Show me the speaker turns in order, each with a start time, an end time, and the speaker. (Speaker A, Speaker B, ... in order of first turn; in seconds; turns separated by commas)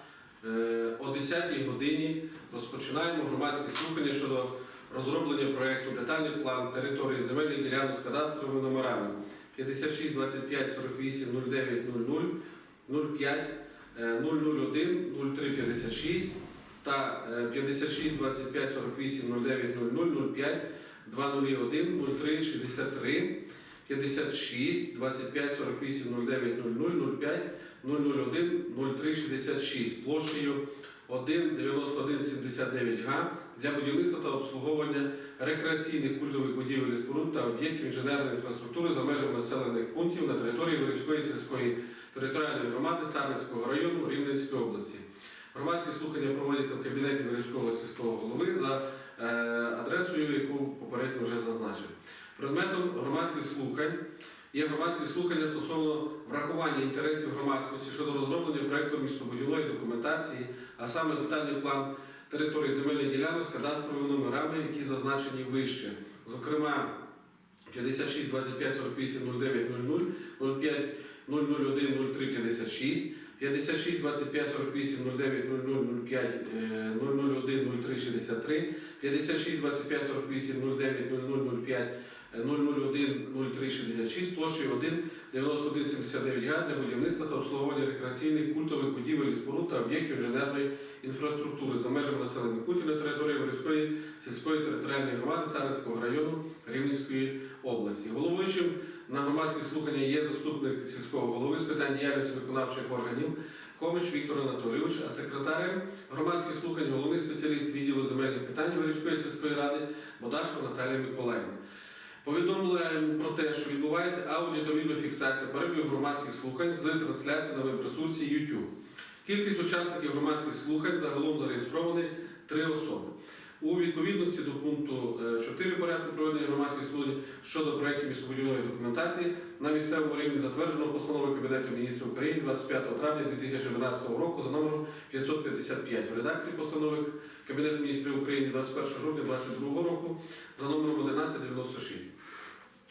Speaker A: 0.4-12.3, Speaker A: 12.9-54.0, Speaker A: 54.5-67.0, Speaker A: 67.7-111.5, Speaker A: 112.2-118.7, Speaker A: 119.2-142.1